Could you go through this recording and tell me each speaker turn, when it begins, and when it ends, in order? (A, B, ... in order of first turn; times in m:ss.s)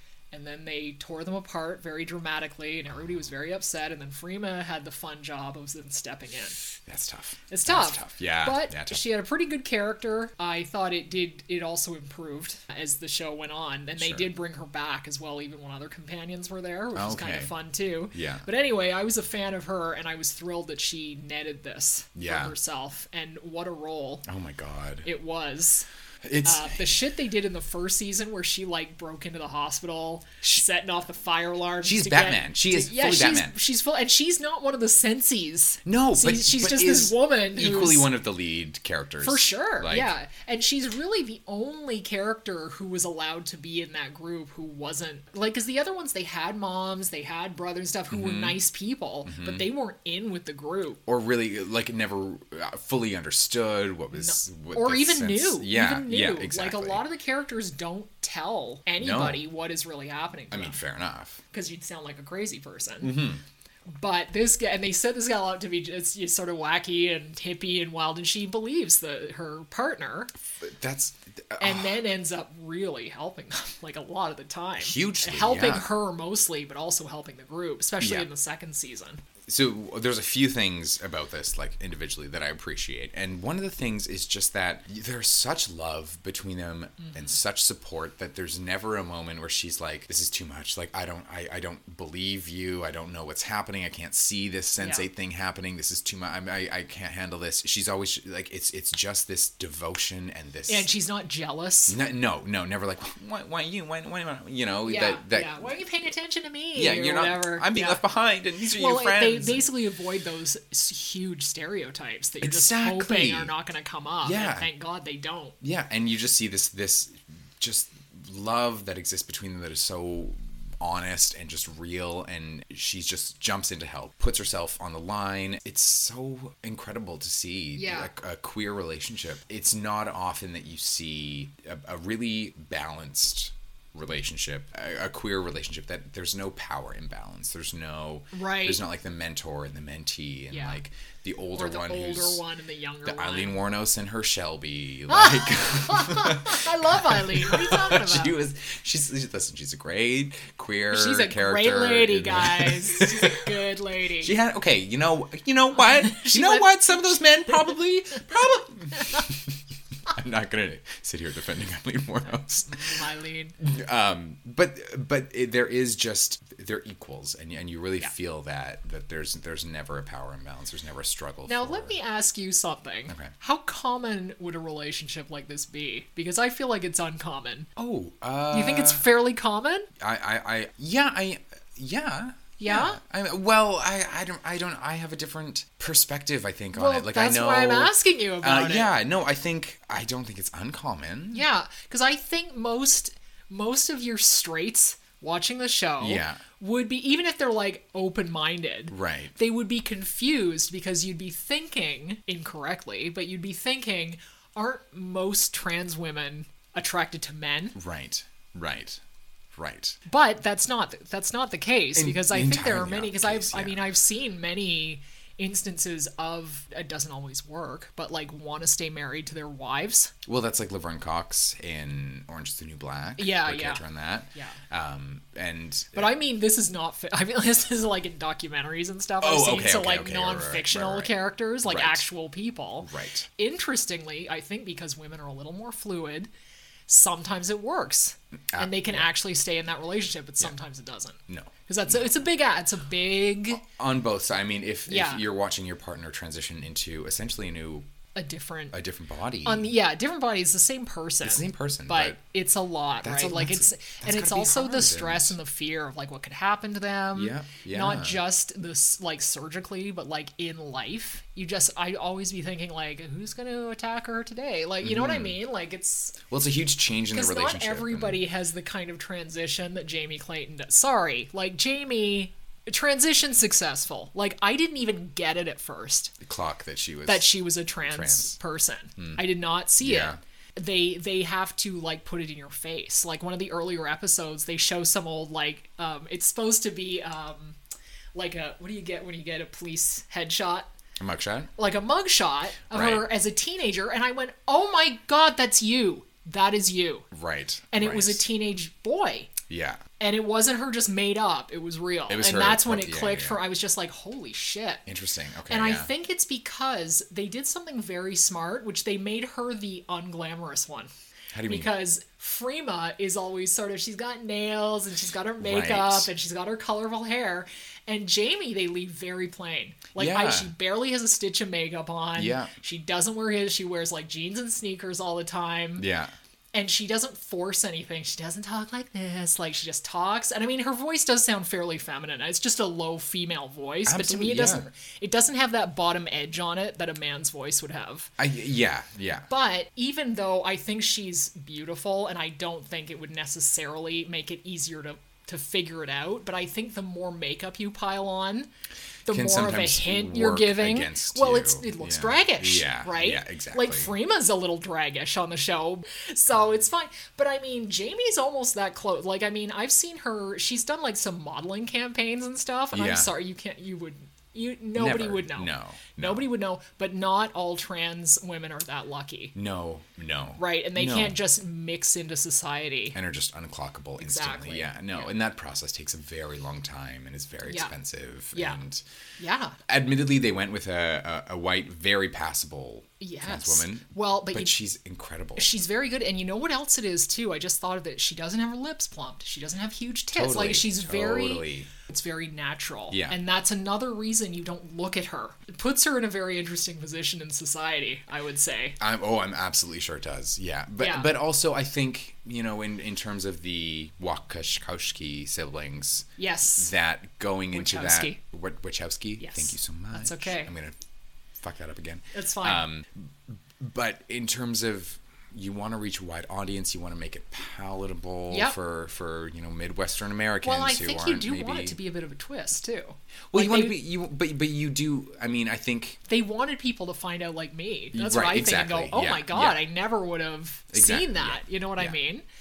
0:00.3-0:06.6 A
0:06.9-0:09.0 B
0:07.5-0:24.3 A
0:14.0-0:14.3 B
0:17.0-0:17.5 B
0:18.1-0:18.5 B
0:22.2-0:22.6 B
0:24.3-0:25.1 B
0:25.0-0:25.9 A
0:26.2-0:26.8 B
0:26.4-0:38.1 A
0:31.8-0:33.6 B
0:35.8-0:40.1 B
0:39.2-0:51.0 A
0:48.1-0:48.6 B
0:49.2-0:49.7 B
0:51.1-0:57.0 B
0:54.1-1:00.8 A
0:59.0-0:59.5 B
1:00.5-1:01.4 B
1:01.5-1:03.2 A
1:03.0-1:03.4 B
1:03.9-1:10.3 A
1:10.6-1:12.0 B
1:11.6-1:19.2 A
1:14.8-1:15.9 B
1:18.0-1:18.3 B
1:19.5-1:40.9 B
1:27.0-1:27.4 A
1:34.8-1:35.1 A
1:40.7-1:42.0 A
1:41.9-1:45.8 B
1:44.8-1:48.0 A
1:46.8-1:49.7 B
1:48.7-1:55.6 A
1:52.4-1:53.5 B
1:54.2-1:54.7 B
1:55.6-2:22.4 B
2:07.8-2:08.1 A
2:18.3-2:18.8 A
2:20.5-2:20.8 A
2:21.5-2:23.6 A
2:23.0-2:33.6 B
2:25.1-2:28.4 A
2:30.9-2:34.3 A
2:34.2-2:43.0 B
2:36.0-2:37.5 A
2:42.6-2:43.6 A
2:43.6-2:52.0 B
2:51.5-2:57.7 A
2:53.1-2:53.3 B
2:57.8-2:59.1 B
2:58.5-2:59.9 A
3:00.0-3:11.5 B
3:02.6-3:03.0 A
3:06.7-3:08.9 A
3:11.3-3:27.8 A
3:16.0-3:16.4 B
3:18.9-3:19.4 B
3:27.8-3:29.0 B
3:29.5-3:30.0 B
3:30.1-3:40.1 A
3:32.0-3:33.9 B
3:40.3-3:46.2 B
3:43.2-3:43.8 A
3:44.3-3:44.6 A
3:45.9-3:56.3 A
3:49.2-3:52.0 B
3:52.8-3:53.3 B
3:56.9-4:03.6 A
3:58.5-3:59.1 B
4:01.3-4:02.2 B
4:03.6-4:07.9 B
4:04.9-4:05.2 A
4:08.2-4:08.8 A
4:08.7-4:09.8 B
4:09.4-4:26.2 A
4:11.2-4:12.2 B
4:13.0-4:15.4 B
4:17.1-4:18.2 B
4:24.8-4:25.4 B
4:26.3-4:28.2 B
4:27.1-4:36.1 A
4:36.2-4:38.4 B
4:37.1-4:47.6 A
4:39.0-4:39.2 B
4:39.8-4:40.2 B
4:48.2-4:50.7 A
4:51.0-4:51.5 B
4:51.6-4:57.1 A
4:52.7-4:53.1 B
4:57.1-4:58.2 B
4:57.7-4:59.3 A
4:59.5-4:59.8 B
5:00.0-5:04.8 A
5:02.1-5:03.4 B
5:04.9-5:05.9 B
5:05.5-5:10.9 A
5:11.3-5:11.7 B
5:11.5-5:25.9 A
5:15.4-5:16.1 B
5:20.0-5:20.5 B
5:22.2-5:22.5 B
5:25.8-5:26.1 B
5:26.5-5:38.1 A
5:33.9-5:34.7 B
5:38.2-5:39.3 B
5:39.3-5:48.5 A
5:49.1-6:09.4 A
5:49.1-5:53.9 B
6:02.7-6:03.1 B
6:04.8-6:06.3 B
6:09.4-6:11.2 B
6:10.4-6:13.0 A
6:12.9-6:18.8 B
6:14.0-6:15.1 A
6:17.4-6:17.8 A
6:18.3-6:18.6 A
6:19.2-6:19.6 A
6:19.7-6:25.5 B
6:23.0-6:24.6 A
6:25.4-6:38.8 A
6:30.1-6:31.7 B
6:32.9-6:33.2 B
6:38.8-6:50.8 B
6:40.8-6:41.1 A
6:46.2-6:46.7 A
6:47.5-6:48.2 A
6:49.2-6:50.5 A
6:51.4-7:01.8 B
6:52.1-6:52.7 A
6:58.3-6:58.6 A
7:00.4-7:03.8 A
7:03.3-7:06.0 B
7:06.1-7:12.2 A
7:07.9-7:09.6 B
7:10.7-7:12.0 B